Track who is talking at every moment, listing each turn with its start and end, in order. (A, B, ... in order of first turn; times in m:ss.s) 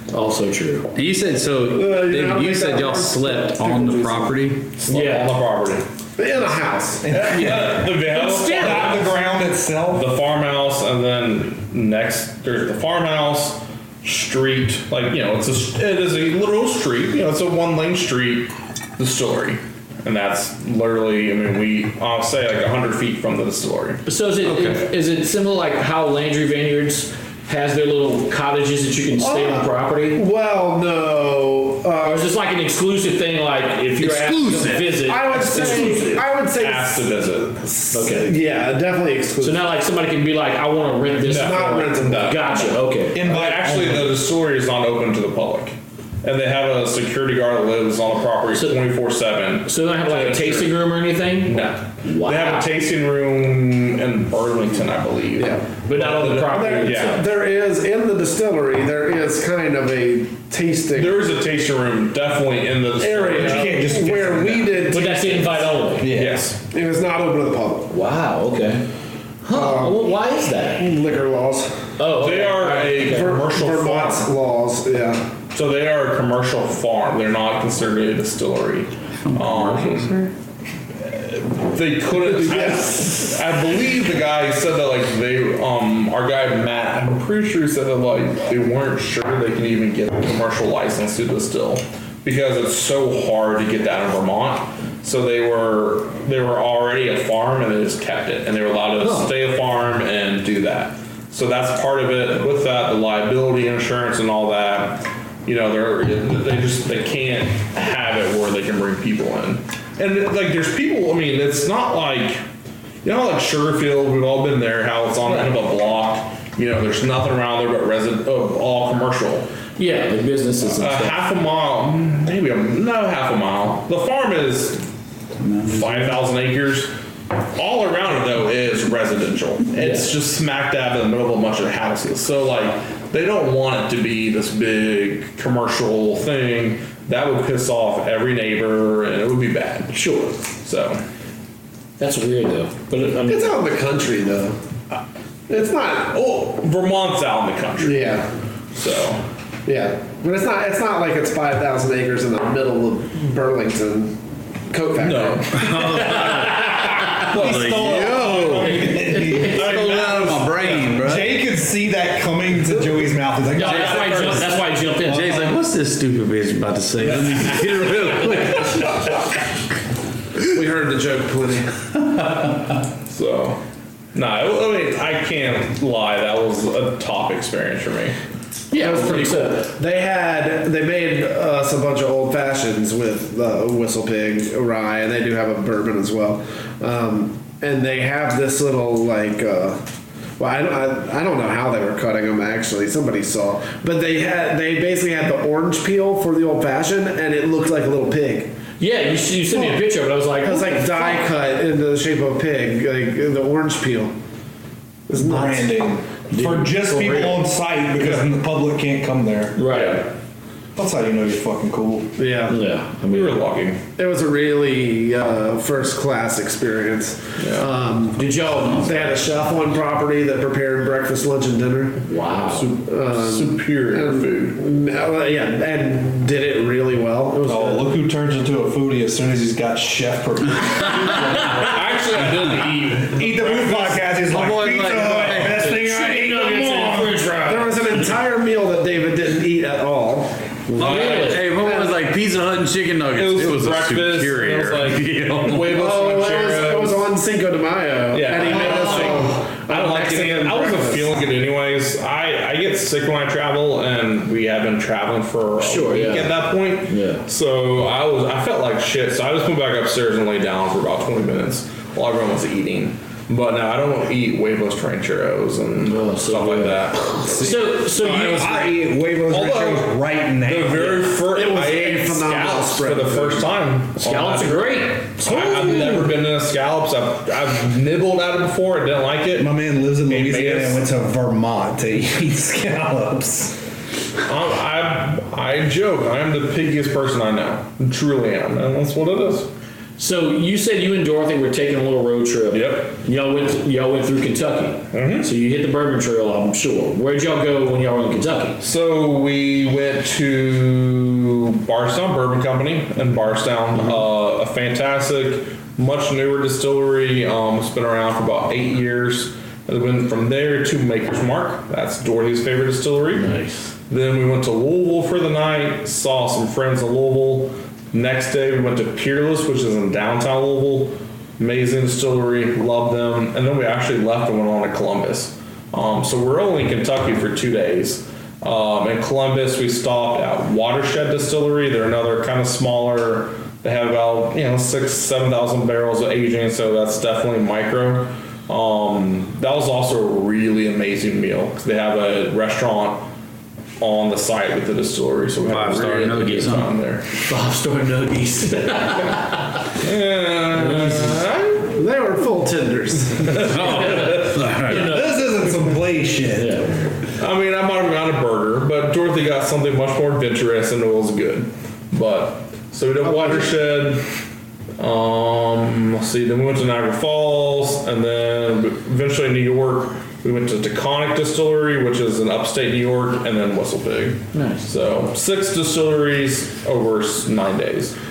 0:00.1-0:00.9 A
0:00.9-0:04.7 B
0:01.6-0:04.4 C
0:04.8-0:05.8 D
0:04.9-0:05.4 A
0:06.2-0:07.1 C
0:07.0-0:10.1 E
0:07.1-0:09.1 D
0:08.0-0:09.1 A
0:09.9-0:24.0 D
0:24.1-0:30.2 A
0:29.2-0:32.3 C
0:32.0-0:36.2 A
0:34.0-0:34.9 B
0:35.0-0:39.7 C
0:36.5-0:37.6 D
0:37.9-0:38.4 A
0:39.4-0:43.2 A
0:41.2-0:42.5 C
0:41.3-0:42.6 D
0:43.1-0:44.2 E
0:43.1-0:50.7 D
0:49.6-0:52.7 A
0:51.4-0:57.2 D
0:55.4-0:55.6 C
0:55.9-0:57.2 A
0:56.4-1:01.3 C
1:01.0-1:03.8 D
1:03.0-1:05.9 C
1:03.3-1:04.9 E
1:04.9-1:06.1 A
1:06.0-1:06.4 E
1:06.1-1:06.6 D
1:06.7-1:07.9 C
1:07.9-1:08.8 A
1:09.4-1:10.8 A
1:09.5-1:10.1 C
1:10.8-1:11.8 C
1:12.0-1:13.4 A
1:12.1-1:14.3 D
1:13.0-1:15.3 C
1:15.5-1:20.1 D
1:19.2-1:20.3 B
1:21.0-1:52.4 D
1:22.2-1:23.3 C
1:39.0-1:39.3 A
1:53.0-1:59.5 D
1:55.3-1:55.5 A
1:59.8-2:01.2 A
2:00.6-2:04.9 D
2:05.4-2:06.2 B
2:05.6-2:06.9 D
2:07.6-2:20.0 D
2:09.8-2:10.1 A
2:19.9-2:20.4 A
2:20.6-2:21.0 D
2:22.0-2:23.6 A
2:23.3-2:24.6 C
2:25.5-2:26.2 C
2:26.1-2:28.2 D
2:27.8-2:28.3 C
2:28.7-2:29.2 D
2:29.6-2:34.2 C
2:34.7-2:35.7 C
2:35.0-2:36.4 D
2:35.6-2:41.4 B
2:35.9-2:37.1 A
2:37.2-2:40.8 D
2:37.2-2:44.3 E
2:38.7-2:39.6 A
2:43.6-2:45.5 A
2:43.6-2:44.5 D
2:44.0-2:44.4 B
2:44.9-2:49.0 B
2:50.5-2:51.7 C
2:53.1-2:53.6 D
2:54.1-2:58.2 D
2:58.7-2:59.6 A
2:58.7-3:09.8 C
3:10.4-3:18.5 C
3:18.8-3:21.3 A
3:19.5-3:19.8 C
3:20.4-3:24.1 C
3:25.1-3:25.8 C
3:25.1-3:30.0 E
3:26.3-3:27.4 A
3:29.6-3:30.1 A
3:30.8-3:32.1 E
3:32.2-3:32.6 C
3:32.5-3:33.4 A
3:33.1-3:33.8 D
3:34.0-3:42.0 C
3:37.4-3:37.7 D
3:38.1-3:39.2 A
3:42.1-3:42.7 A
3:42.5-3:44.6 D
3:42.9-3:47.9 C
3:47.4-3:51.8 E
3:51.3-3:54.2 D
3:53.0-3:57.2 E
3:54.3-3:55.7 B
3:55.0-3:57.8 A
3:57.4-4:00.8 C
4:00.8-4:01.5 A
4:00.8-4:05.7 B
4:00.8-4:01.4 D
4:01.6-4:02.0 C
4:03.1-4:07.1 D
4:05.7-4:11.2 C
4:08.1-4:27.2 D
4:15.6-4:17.2 A
4:25.8-4:28.8 A
4:27.2-4:27.7 C
4:27.9-4:31.0 E
4:29.3-4:40.8 D
4:31.2-4:33.6 C
4:34.0-4:36.0 A
4:39.4-4:43.6 E
4:44.3-4:49.5 D
4:50.0-4:58.6 A
4:52.5-4:53.0 D
4:54.9-4:55.3 D
4:58.6-5:13.3 D
5:13.1-5:13.7 A
5:13.9-5:43.1 D
5:43.8-5:47.1 D
5:45.4-5:46.7 B
5:47.3-5:49.6 A
5:49.8-5:51.8 D
5:50.6-5:51.2 A
5:51.8-5:53.5 C
5:53.3-5:54.2 D
5:53.4-5:54.9 B
5:53.7-5:55.6 A
5:54.7-5:56.6 E
5:56.3-5:56.9 A
5:57.2-6:04.0 D
6:03.0-6:03.5 C
6:04.8-6:18.0 D
6:14.3-6:14.7 A